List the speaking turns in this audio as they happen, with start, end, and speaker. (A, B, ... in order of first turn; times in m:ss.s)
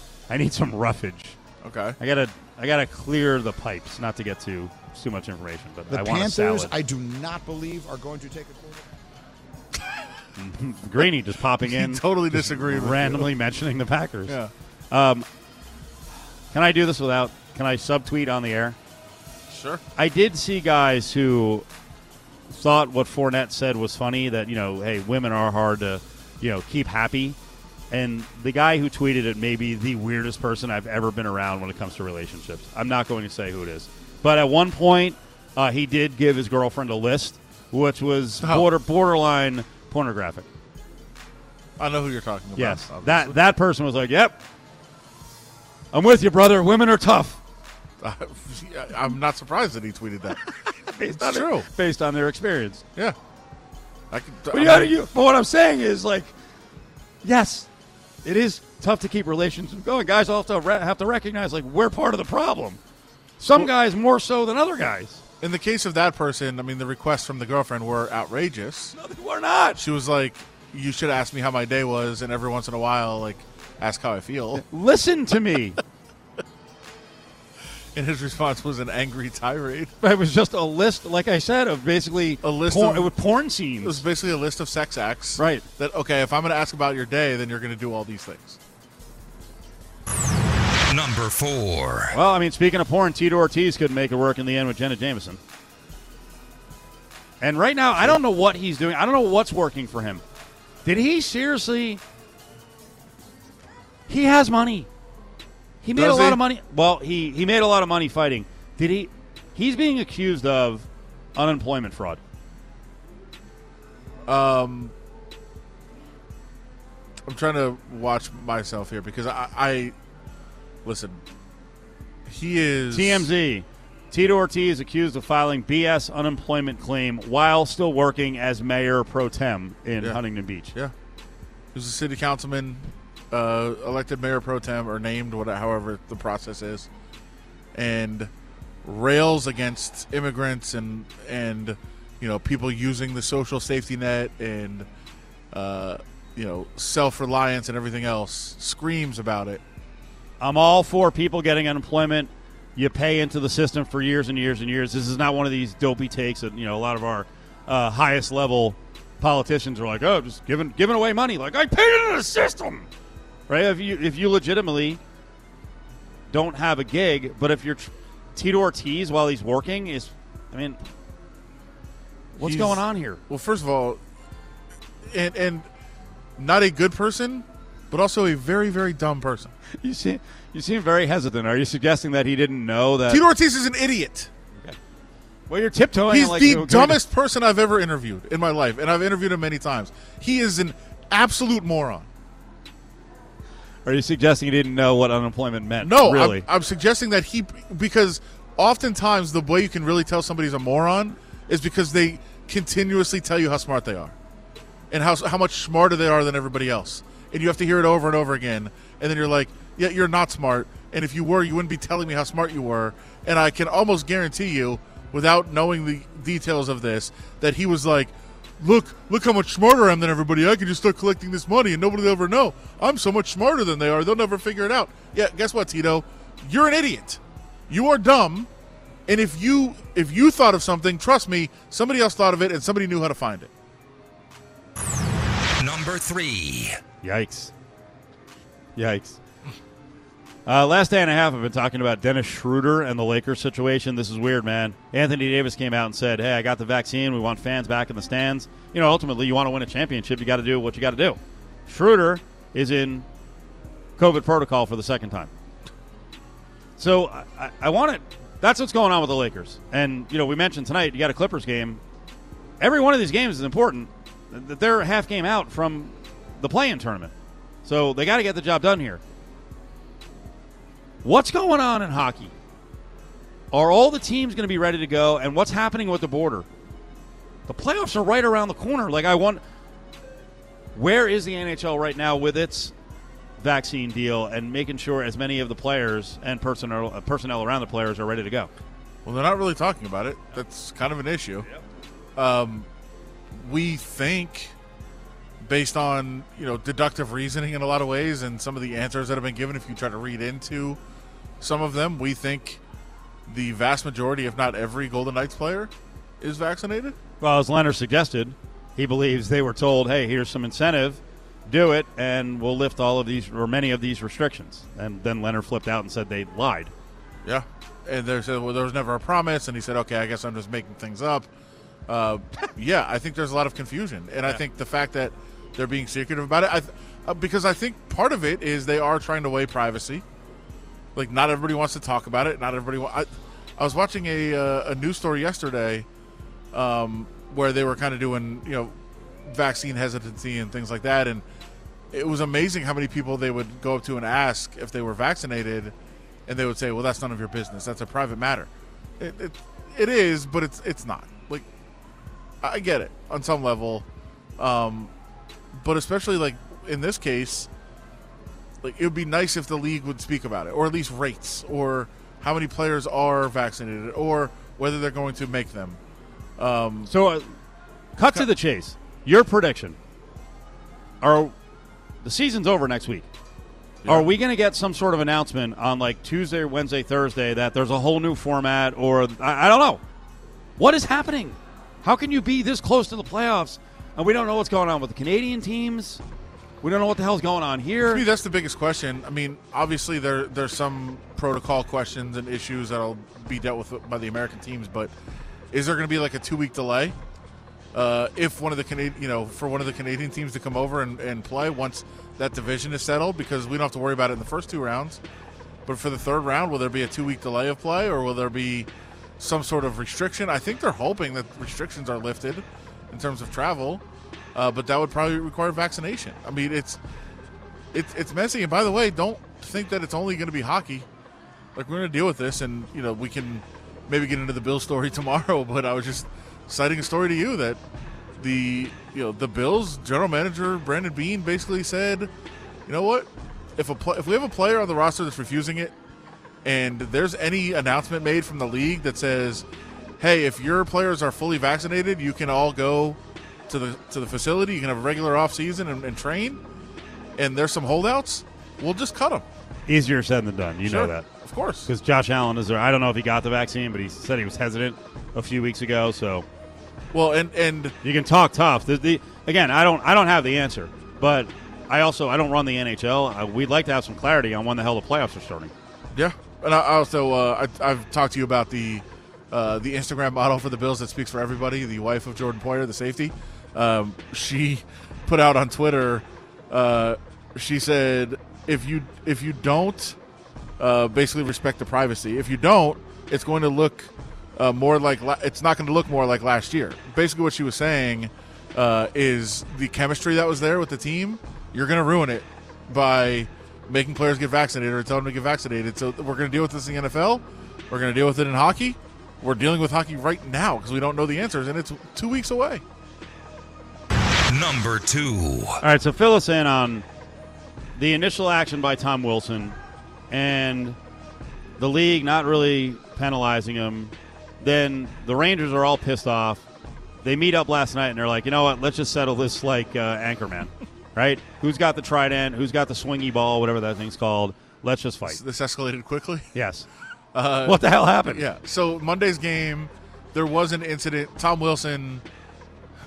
0:00.3-0:01.4 A
0:01.6-0:02.0 B
0:02.0-0:06.7 A
0:05.9-0:08.8 C
0:10.4-0:14.4 A
0:11.6-0:13.3 B
0:14.3-0:14.5 B
0:14.9-0:15.2 A
0:16.5-0:18.8 A
0:19.5-0:19.8 B
0:20.0-0:21.6 A
0:22.5-0:27.4 A
0:27.9-0:40.5 A
0:38.4-0:38.7 B
0:41.8-0:43.4 B
0:42.6-0:44.4 A
0:45.9-0:47.4 A
0:48.0-0:50.4 B
0:50.4-0:52.8 A
0:51.2-0:51.7 B
0:54.1-0:54.9 B
0:54.5-0:56.3 A
0:57.2-0:57.7 A
0:58.2-1:02.8 A
1:03.4-1:05.2 A
1:05.4-1:09.0 B
1:08.9-1:09.8 A
1:09.8-1:14.6 B
1:14.5-1:15.8 A
1:17.9-1:19.9 B
1:20.0-1:24.0 A
1:22.4-1:23.1 B
1:23.8-1:28.6 B
1:25.4-1:25.6 A
1:30.9-1:32.1 D
1:32.1-1:35.4 A
1:37.4-1:40.2 A
1:40.8-1:42.0 A
1:44.1-1:44.9 A
1:45.8-1:52.2 A
1:45.9-1:46.4 B
1:54.2-1:54.9 B
1:57.2-1:59.9 B
2:00.8-2:01.2 B
2:02.2-2:03.3 B
2:02.9-2:10.7 A
2:11.7-2:16.9 B
2:17.7-2:18.3 B
2:18.8-2:24.9 B
2:25.5-2:29.6 B
2:30.4-2:42.8 A
2:43.5-2:45.0 A
2:46.3-2:50.8 A
2:52.3-2:53.2 A
2:52.4-2:54.0 B
2:55.0-2:55.7 B
2:56.4-2:59.5 B
2:59.8-3:03.2 A
3:03.1-3:04.3 B
3:05.5-3:07.0 A
3:06.1-3:12.1 B
3:13.8-3:16.4 A
3:15.8-3:24.1 B
3:24.9-3:48.5 B
3:49.1-3:53.5 B
3:55.6-3:56.8 D
3:57.0-3:57.5 A
3:58.8-3:59.2 A
4:00.4-4:13.0 A
4:14.0-4:15.3 A
4:16.8-4:21.8 A
4:22.6-4:27.1 A
4:27.6-4:29.0 A
4:31.0-4:32.3 A
4:33.5-4:36.4 A
4:37.5-4:39.4 A
4:40.7-4:42.7 A
4:43.4-4:48.5 A
4:49.0-4:51.5 B
4:52.2-4:52.7 B
4:53.3-4:54.5 B
4:55.4-5:00.8 B
5:01.4-5:02.6 B
5:03.3-5:07.0 B
5:07.2-5:16.7 A
5:17.2-5:21.3 B
5:21.9-5:30.0 B
5:30.9-5:35.8 B
5:36.5-5:41.2 B
5:41.9-5:45.7 B
5:46.2-5:51.5 B
5:52.4-5:53.8 B
5:54.4-5:54.9 B
5:55.5-5:57.5 B
5:58.6-6:05.8 B
6:06.4-6:06.9 B
6:06.9-6:07.2 A
6:08.0-6:09.8 A
6:11.0-6:11.3 A
6:12.0-6:13.1 A
6:13.8-6:14.1 B
6:13.8-6:19.8 A
6:20.6-6:26.0 A
6:26.6-6:28.0 A
6:27.8-6:34.9 B
6:35.5-6:37.0 B
6:37.7-6:45.0 B
6:45.6-6:53.8 B
6:54.3-6:56.8 B
6:57.7-7:00.9 B
7:01.5-7:07.6 B
7:08.2-7:12.1 B
7:12.7-7:15.7 B
7:16.4-7:19.4 B
7:20.0-7:26.4 B
7:27.2-7:29.2 B
7:29.7-7:31.0 A
7:30.6-7:31.7 B
7:31.6-7:36.2 A
7:36.9-7:37.7 B
7:37.8-7:45.5 A
7:45.9-8:00.0 B
8:00.6-8:22.6 B
8:24.3-8:25.6 D
8:25.6-8:26.8 A
8:27.8-8:29.6 A
8:30.1-8:30.8 A
8:31.6-8:36.4 A
8:37.0-8:45.2 A
8:45.0-8:46.3 B
8:46.3-8:46.6 A
8:47.1-8:52.0 B
8:47.4-8:48.2 A